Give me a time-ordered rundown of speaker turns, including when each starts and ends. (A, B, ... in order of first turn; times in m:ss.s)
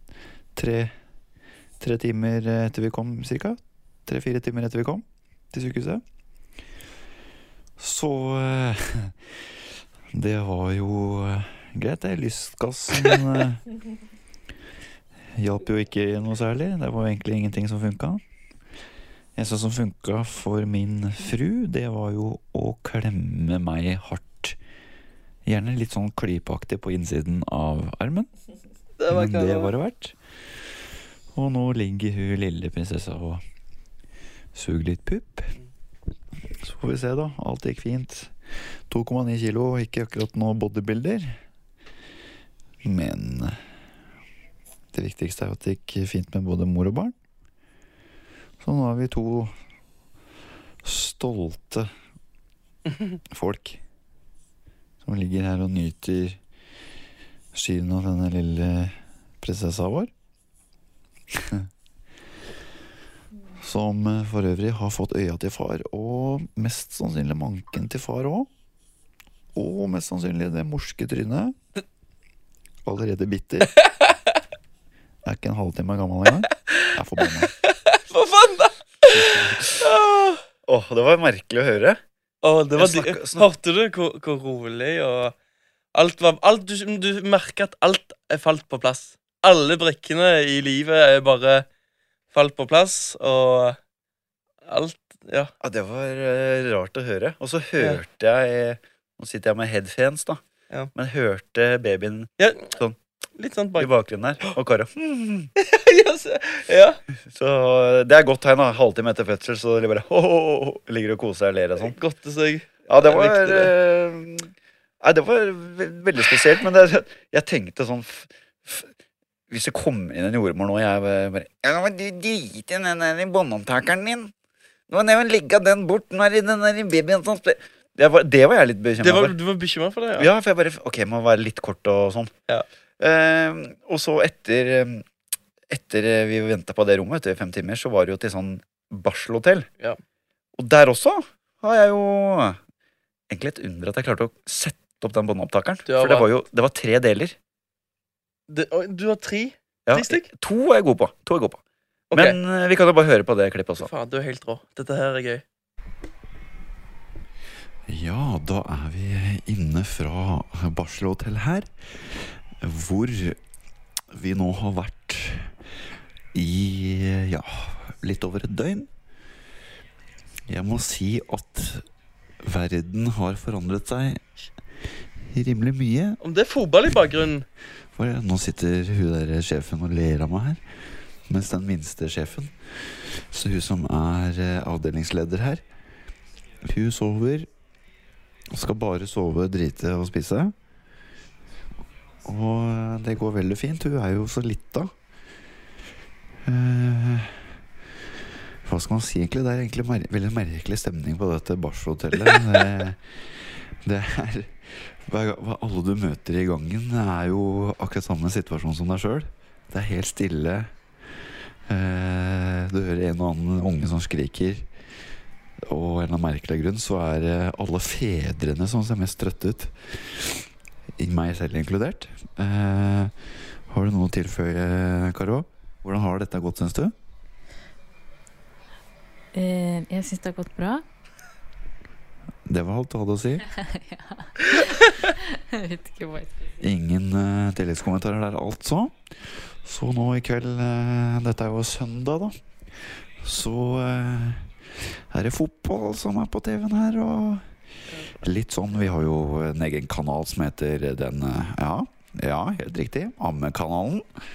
0:00.6-0:00.9 A
0:01.8-0:06.0 A
0:07.8-0:09.2 A
0:10.1-0:13.6 A
0:15.4-0:18.2 A
0:19.4-0:24.6 A
0:25.5-0:28.3 A
0:29.0-0:29.7 B
0:29.1-0:30.2 A
0:31.3-0:33.4 A
0:34.5-0:35.5 A
0:36.6-0:38.3 A
0:38.9-0:41.4 A
0:42.8-0:43.6 A
0:44.9-0:47.2 A
0:48.6-0:49.5 A
0:50.8-0:51.9 A
0:53.3-0:53.8 A
0:55.0-0:56.4 A
0:57.5-1:00.1 A
1:01.3-1:01.7 A
1:03.6-1:08.5 A
1:09.5-1:11.6 A
1:12.8-1:13.7 A
1:13.7-1:14.4 B
1:15.2-1:17.5 A
1:17.6-1:20.4 B
1:19.1-1:19.8 A
1:20.7-1:22.0 A
1:22.4-1:25.3 B
1:22.8-1:23.5 A
1:25.9-1:31.7 B
1:32.3-1:33.8 B
1:34.7-1:35.5 B
1:35.6-1:40.4 A
1:40.9-1:43.0 A
1:42.4-1:42.7 B
1:43.4-1:43.9 B
1:43.8-1:45.5 A
1:45.6-1:47.0 B
1:47.3-1:52.0 A
1:51.8-1:53.7 B
1:52.9-1:54.5 A
1:55.0-1:58.9 A
1:59.5-2:04.3 A
2:04.9-2:09.3 A
2:09.0-2:10.3 B
2:10.2-2:12.3 A
2:13.0-2:15.0 A
2:15.7-2:19.7 A
2:20.6-2:22.6 A
2:23.3-2:27.4 A
2:25.9-2:26.3 B
2:28.5-2:30.3 B
2:29.9-2:31.6 A
2:32.1-2:32.4 B
2:32.1-2:33.9 A
2:33.8-2:35.4 B
2:37.9-2:41.7 A
2:42.6-2:43.4 A
2:44.1-2:45.5 A
2:46.3-2:48.9 A
2:50.5-2:51.8 A
2:52.4-2:54.2 A
2:55.2-2:56.2 A
2:56.2-2:57.5 B
2:58.0-3:00.6 A
3:01.3-3:05.6 A
3:06.6-3:07.5 A
3:08.5-3:10.5 A
3:12.2-3:14.9 A
3:16.4-3:17.4 A
3:18.7-3:23.0 A
3:23.8-3:30.7 A
3:31.7-3:34.6 A
3:35.6-3:40.4 A
3:41.0-3:43.1 A
3:43.7-3:46.9 A
3:49.3-3:50.8 C
3:52.5-3:53.5 A
3:53.6-3:56.6 C
3:56.6-3:59.1 A
3:59.6-4:02.4 A
4:03.2-4:07.5 A
4:07.9-4:08.2 B
4:08.2-4:14.1 A